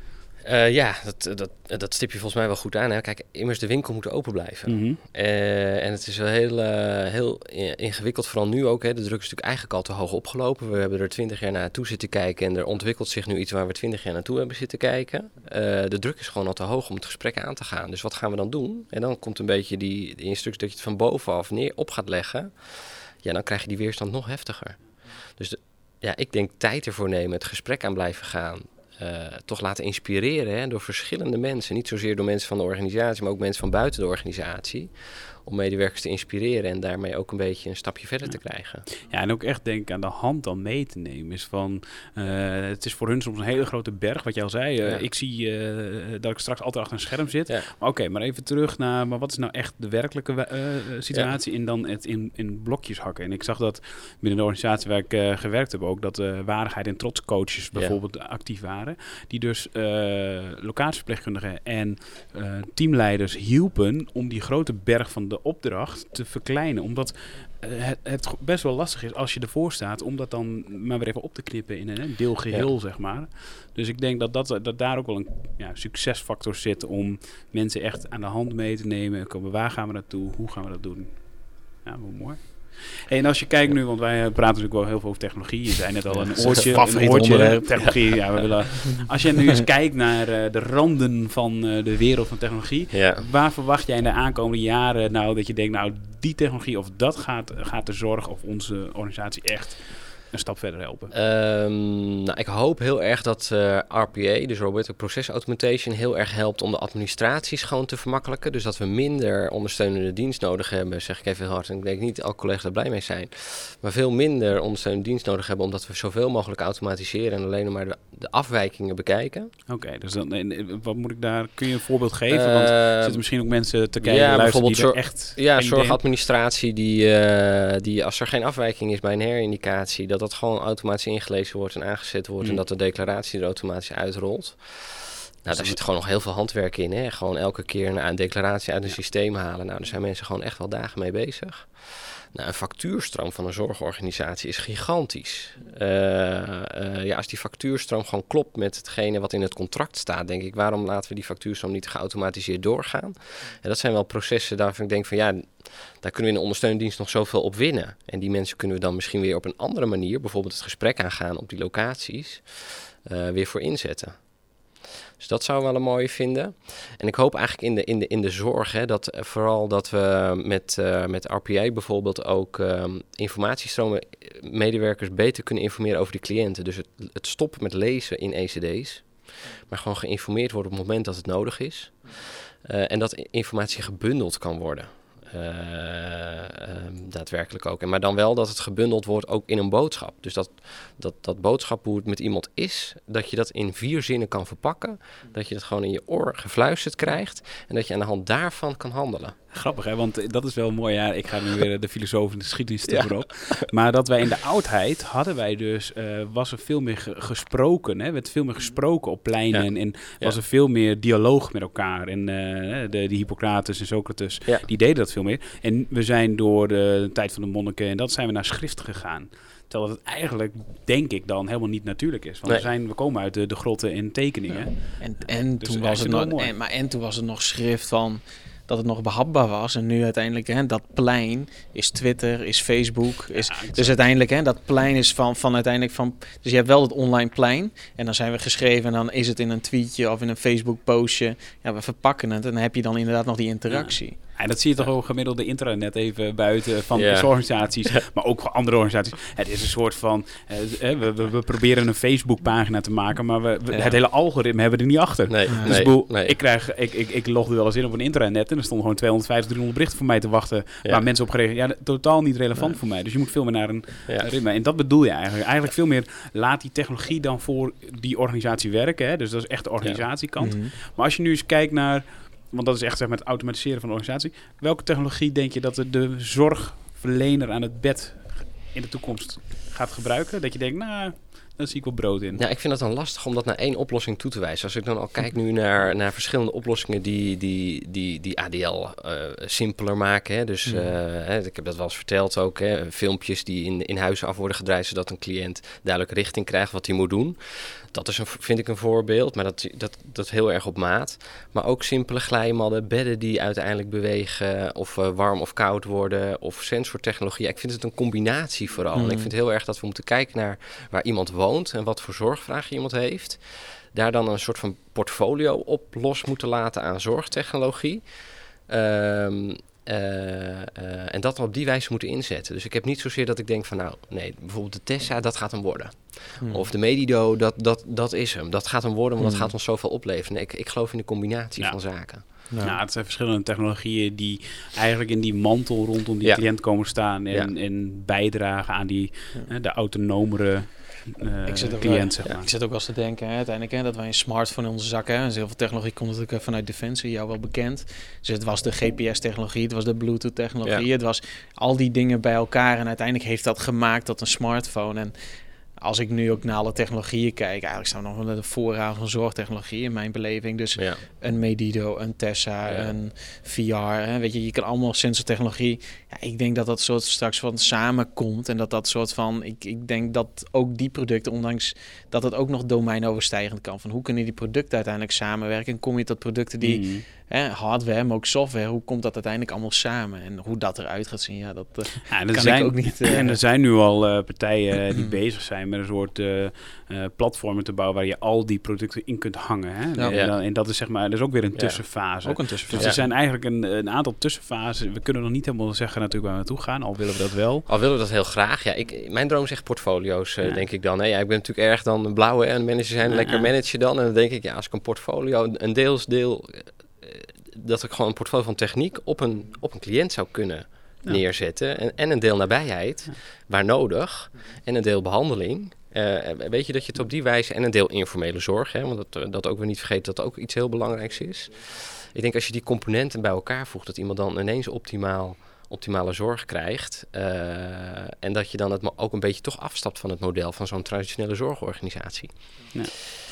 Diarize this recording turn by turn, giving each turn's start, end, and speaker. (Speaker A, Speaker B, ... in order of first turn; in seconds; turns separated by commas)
Speaker A: 0.4-38.9, Speaker B: 4.7-5.0, Speaker B: 38.9-101.1, Speaker A: 86.1-86.7, Speaker C: 86.3-88.3, Speaker A: 92.9-93.2, Speaker A: 101.1-119.5, Speaker B: 119.7-126.0, Speaker A: 122.3-123.2, Speaker A: 124.0-164.3, Speaker B: 135.5-135.8, Speaker A: 165.2-199.3, Speaker B: 199.5-226.5, Speaker A: 202.9-203.7, Speaker A: 209.5-210.3, Speaker C: 224.5-244.2, Speaker B: 233.3-234.0, Speaker B: 243.7-282.4, Speaker A: 246.9-247.3, Speaker A: 253.7-254.0, Speaker A: 255.3-256.4, Speaker C: 255.5-255.8, Speaker C: 270.4-270.7, Speaker A: 282.4-332.3, Speaker C: 290.6-290.9, Speaker C: 308.9-309.3, Speaker C: 326.4-326.7, Speaker C: 329.2-329.5, Speaker B: 331.6-342.5, Speaker C: 332.5-332.8, Speaker A: 336.2-337.5, Speaker C: 341.5-355.1, Speaker C: 355.8-383.4, Speaker A: 360.8-361.0, Speaker A: 362.6-362.9, Speaker B: 376.6-377.0, Speaker B: 382.1-397.7, Speaker A: 391.5-391.8, Speaker C: 392.2-393.0, Speaker A: 397.7-432.7, Speaker B: 403.0-403.5